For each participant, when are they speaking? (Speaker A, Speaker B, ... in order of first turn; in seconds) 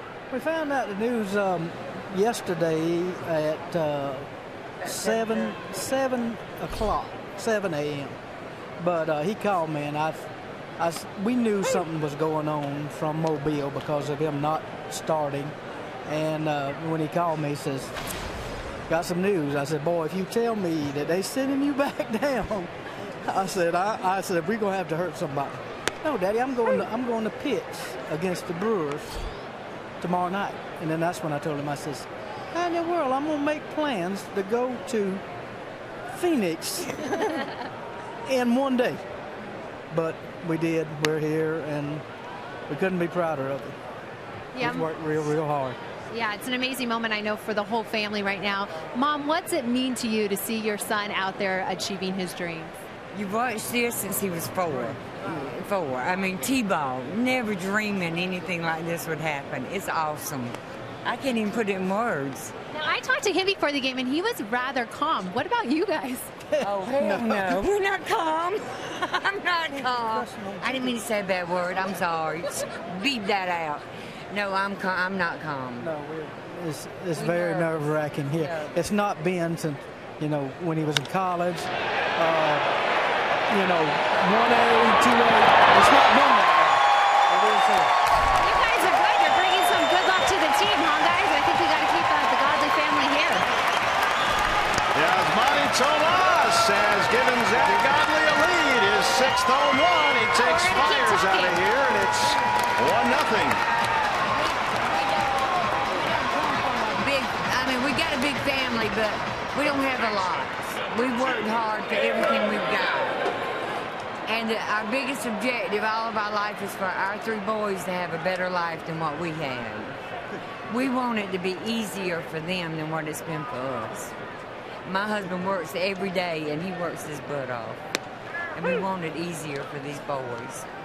Speaker A: 0.3-4.3, 4.8-8.2, 8.8-10.3, 10.8-15.6, 16.1-17.9, 18.9-22.7, 23.2-29.2, 30.0-35.2, 36.1-37.5, 38.3-39.0, 39.9-42.0, 42.7-43.8, 44.6-45.8, 66.5-67.6, 69.7-71.0, 75.8-82.7, 83.5-87.9
Speaker B: 4.8-5.6, 53.1-62.5, 66.6-75.9, 77.1-78.8, 104.3-113.2, 114.3-120.0, 120.7-124.1, 124.8-127.8, 128.6-130.7
Speaker C: 44.5-44.9, 46.1-52.8, 62.7-66.3, 88.4-93.5, 100.4-101.6
Speaker D: 94.9-103.6